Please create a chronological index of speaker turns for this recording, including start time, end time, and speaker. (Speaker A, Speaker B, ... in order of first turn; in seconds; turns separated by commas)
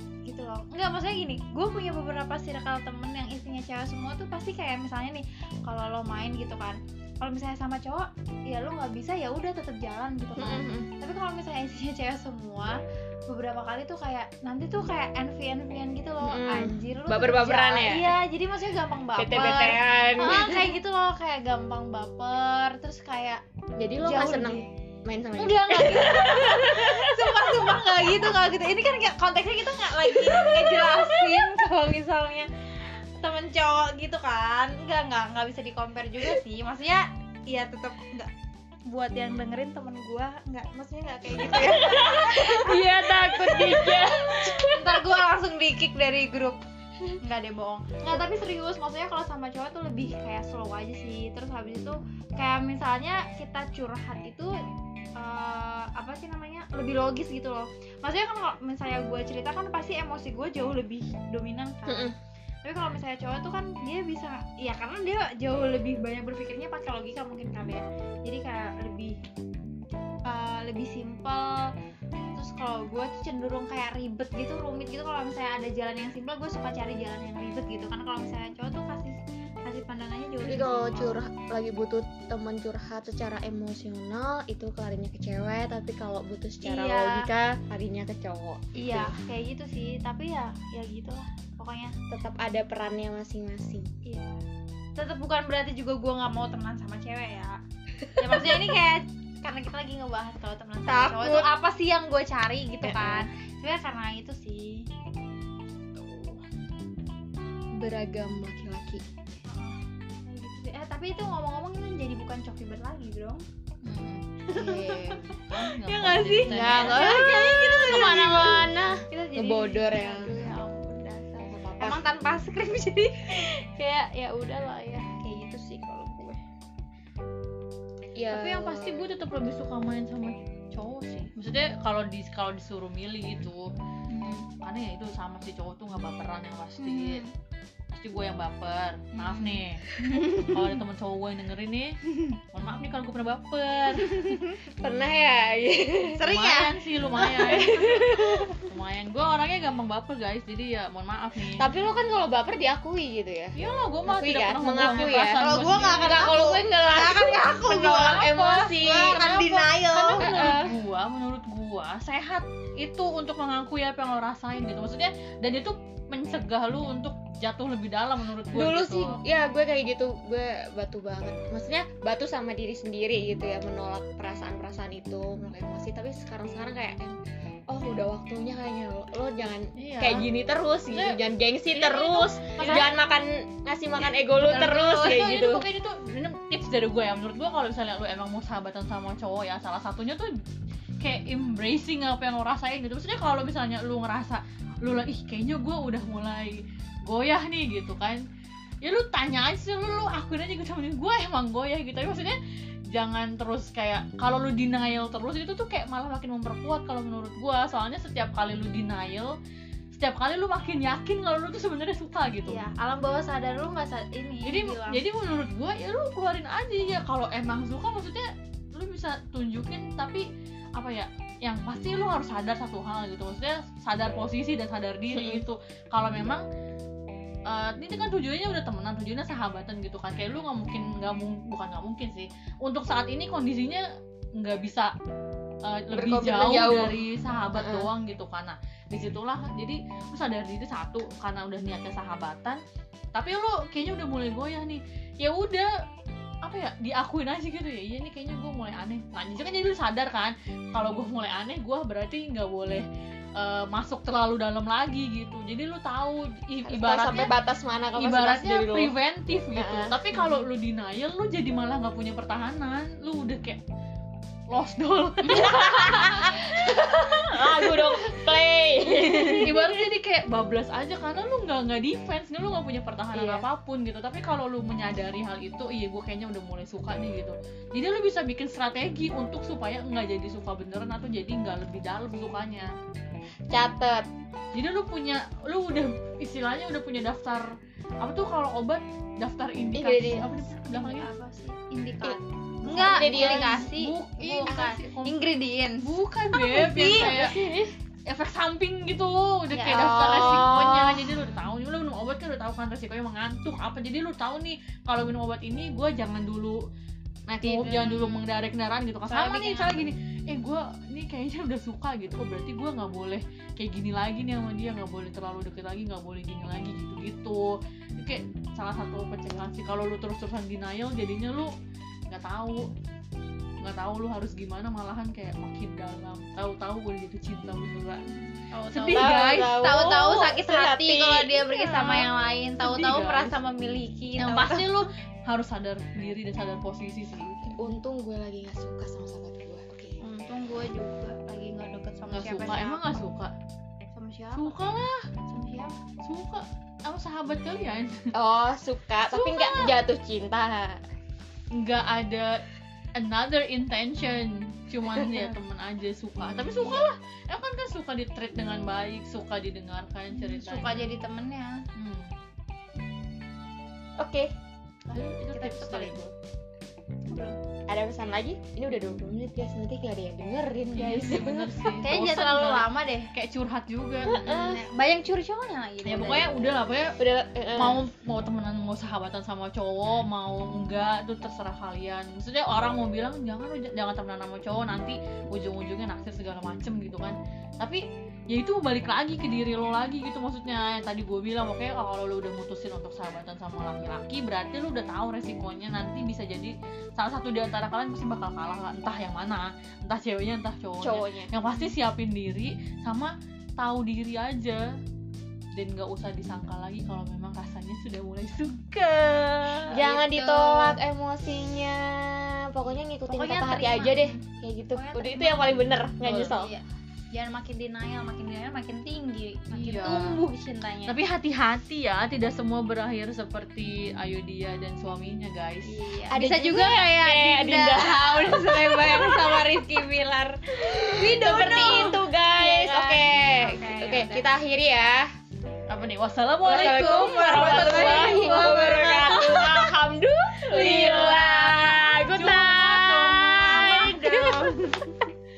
Speaker A: 0.2-23.4, Speaker B: 10.4-10.9, Speaker B: 16.2-18.1, Speaker B: 19.2-20.7, Speaker B: 23.8-27.8, Speaker A: 24.0-24.7, Speaker A: 25.4-38.3, Speaker B: 30.2-31.1, Speaker A: 38.9-44.0, Speaker B: 41.5-44.8, Speaker C: 42.9-44.6, Speaker A: 44.6-54.6, Speaker A: 55.2-62.1, Speaker B: 61.9-62.1, Speaker A: 62.6-69.2, Speaker A: 70.3-71.7, Speaker A: 72.3-81.2, Speaker B: 80.4-89.1, Speaker A: 86.6-87.3, Speaker A: 88.8-92.0, Speaker B: 92.1-93.9, Speaker A: 94.0-94.4, Speaker A: 95.0-97.6, Speaker A: 98.2-104.9, Speaker B: 100.9-101.5, Speaker B: 102.8-103.3, Speaker B: 107.8-109.0, Speaker A: 109.5-113.4, Speaker A: 114.4-126.4, Speaker B: 114.5-115.3, Speaker C: 115.3-117.1, Speaker B: 116.5-120.4, Speaker B: 121.4-122.1, Speaker B: 128.2-129.1, Speaker C: 128.3-133.7, Speaker A: 134.1-134.5, Speaker C: 134.6-137.2, Speaker A: 136.8-137.3, Speaker C: 137.9-144.4, Speaker A: 139.2-140.7, Speaker B: 144.7-146.2, Speaker A: 146.2-146.7, Speaker C: 146.2-151.7, Speaker B: 147.2-148.7, Speaker B: 151.6-159.3, Speaker C: 153.6-156.3, Speaker A: 154.9-160.6, Speaker C: 158.8-169.2, Speaker B: 160.2-160.7, Speaker B: 168.5-177.2, Speaker B: 177.7-185.7, Speaker C: 179.8-180.3, Speaker C: 180.9-181.2, Speaker C: 181.8-182.9, Speaker A: 182.4-182.9, Speaker C: 184.5-190.3, Speaker C: 191.0-198.2, Speaker C: 198.8-202.4, Speaker C: 202.9-209.3, Speaker C: 209.9-212.6, Speaker A: 212.5-215.0, Speaker C: 214.5-226.5, Speaker B: 225.1-225.4, Speaker C: 227.5-234.9, Speaker C: 235.7-242.6, Speaker B: 235.9-237.0, Speaker B: 237.5-237.9, Speaker C: 243.1-245.7, Speaker C: 246.4-257.4, Speaker B: 256.6-258.9, Speaker C: 257.9-263.6, Speaker B: 259.5-260.0, Speaker C: 264.5-268.3, Speaker B: 265.3-269.7, Speaker C: 268.9-282.7, Speaker B: 273.1-273.5, Speaker B: 283.5-284.1, Speaker C: 284.5-287.5, Speaker C: 288.0-291.1, Speaker B: 289.8-290.3, Speaker A: 290.0-297.2, Speaker B: 292.0-293.7, Speaker C: 292.7-295.1, Speaker C: 295.8-297.4, Speaker B: 296.8-297.7, Speaker C: 298.1-306.6, Speaker A: 299.5-300.1, Speaker B: 299.7-301.2, Speaker C: 307.3-321.5, Speaker B: 307.4-307.9, Speaker A: 307.5-308.1, Speaker A: 309.1-309.9, Speaker C: 322.1-322.7, Speaker C: 323.6-328.2, Speaker A: 328.4-334.9, Speaker C: 328.7-329.8, Speaker B: 328.9-331.4, Speaker C: 331.4-333.4, Speaker C: 334.2-337.6, Speaker B: 337.5-340.0, Speaker A: 340.0-342.8, Speaker C: 342.1-343.3, Speaker A: 343.9-344.6, Speaker C: 344.4-345.1, Speaker A: 345.3-345.8, Speaker C: 346.0-348.1, Speaker B: 348.1-350.8, Speaker C: 349.1-349.7, Speaker C: 351.5-352.4, Speaker C: 352.9-360.9, Speaker A: 360.1-361.6, Speaker C: 361.8-362.1, Speaker B: 364.0-364.3, Speaker A: 364.9-366.0, Speaker C: 364.9-366.1, Speaker A: 367.1-367.4, Speaker B: 367.7-371.6, Speaker C: 370.7-374.3, Speaker A: 371.8-373.1, Speaker B: 374.1-374.7, Speaker A: 374.1-376.5, Speaker C: 375.8-377.0, Speaker B: 377.0-377.9, Speaker C: 377.5-404.7, Speaker B: 400.8-401.3, Speaker C: 405.5-409.8, Speaker B: 409.7-416.5, Speaker A: 409.8-410.8, Speaker A: 413.1-414.2, Speaker A: 414.8-421.0, Speaker C: 419.5-420.2, Speaker C: 420.9-426.3, Speaker A: 425.6-434.3, Speaker B: 426.1-435.1, Speaker C: 435.7-439.6, Speaker B: 436.5-444.8, Speaker A: 436.6-439.4, Speaker C: 440.5-444.5, Speaker A: 440.5-441.6, Speaker A: 443.5-444.9